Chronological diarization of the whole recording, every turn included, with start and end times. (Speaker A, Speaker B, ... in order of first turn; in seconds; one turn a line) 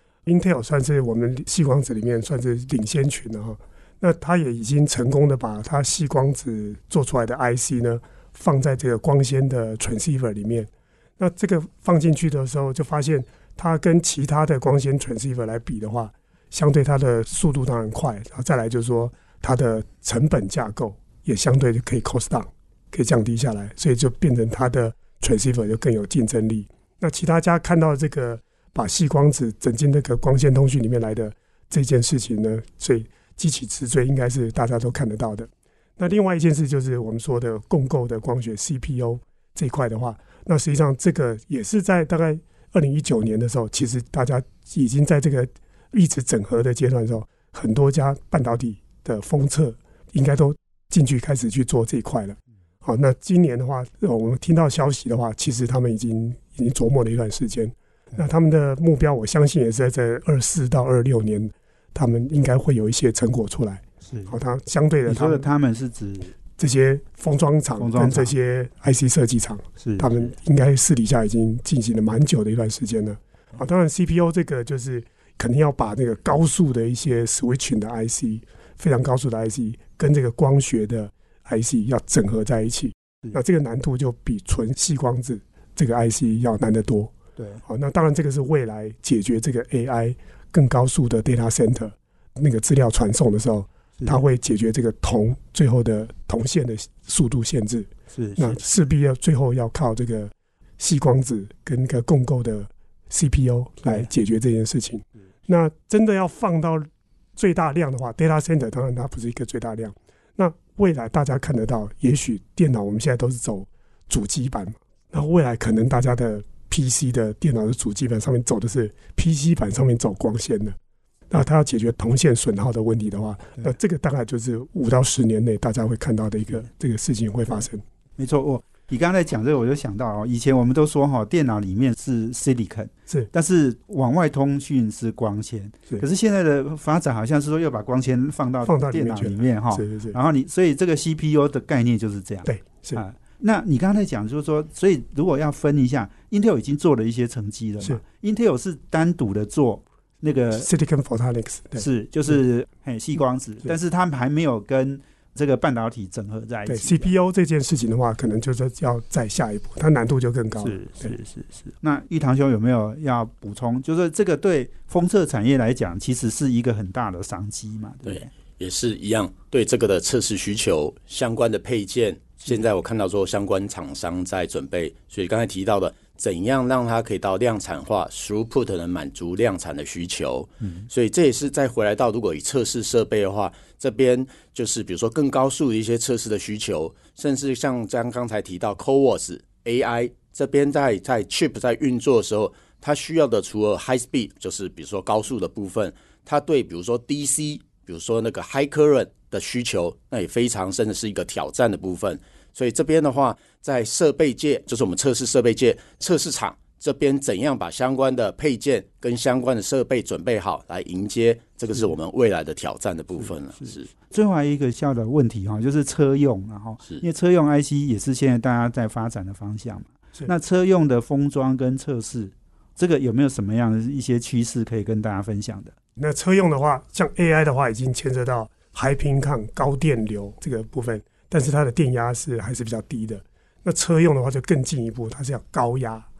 Speaker A: 0.2-65.5
Speaker B: 64.1-64.3
Speaker B: 65.1-66.3
Speaker A: 66.5-87.1
Speaker B: 67.8-68.3
Speaker B: 69.8-70.3
Speaker B: 87.4-87.6
Speaker A: 87.7-120.8
Speaker B: 98.1-98.6
Speaker A: 121.3-127.8
Speaker B: 128.2-150.7
Speaker A: 138.6-140.2
Speaker A: 142.4-143.0
Speaker A: 150.5-151.8
Speaker B: 151.8-157.1
Speaker A: 156.7-161.1
Speaker B: 160.6-168.3
Speaker C: 168.1-213.9
Speaker B: 213.6-225.8
Speaker A: 226.0-236.1